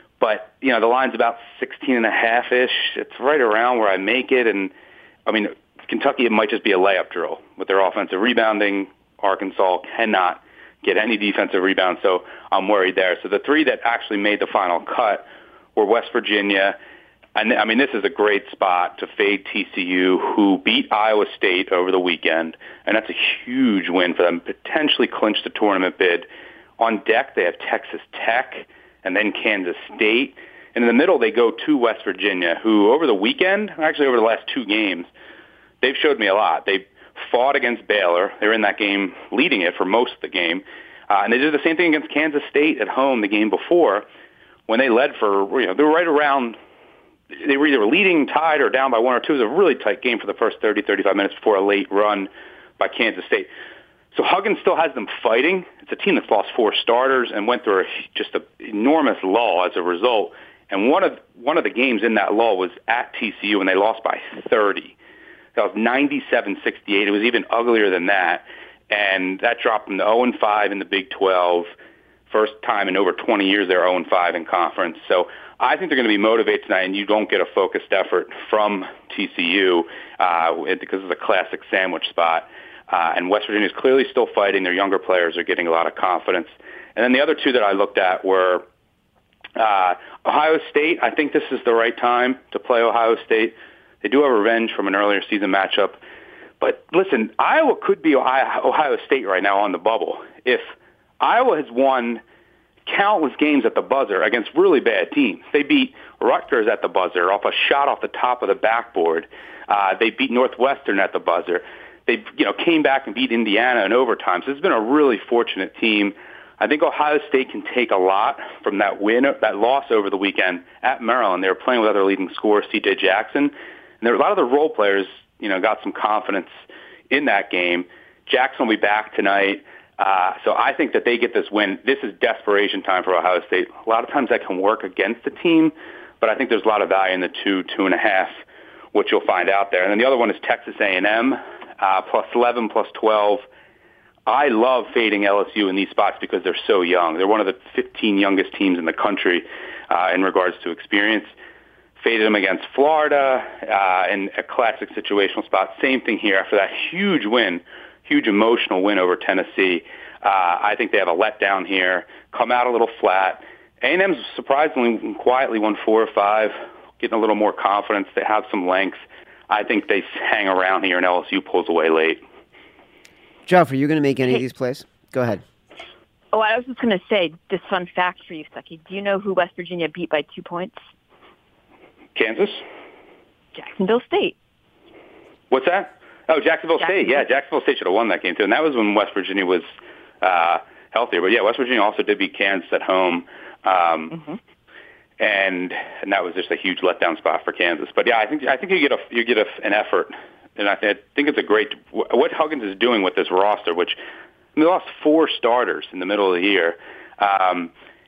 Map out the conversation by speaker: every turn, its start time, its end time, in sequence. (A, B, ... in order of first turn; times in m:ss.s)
0:00.2-0:04.7 A
0:05.3-0:16.8 A
0:17.4-0:26.3 A
0:26.8-0:35.1 A
0:35.8-0:44.0 A
0:44.7-0:46.6 A
0:47.3-0:53.5 A
0:54.1-1:05.0 A
1:05.6-1:11.7 A
1:12.3-1:28.6 A
1:29.6-1:36.0 A
1:36.6-1:42.2 A
1:42.9-2:06.5 A
2:07.1-2:18.4 A
2:18.9-2:23.5 A
2:24.3-2:31.3 A
2:32.0-2:52.2 A
2:53.5-2:55.4 B
2:56.3-3:00.8 C
3:02.2-3:02.6 A
3:03.6-3:04.4 C
3:05.5-3:09.7 A
3:06.8-3:07.2 C
3:10.2-3:14.2 A
3:15.2-3:24.0 A
3:24.6-3:27.7 A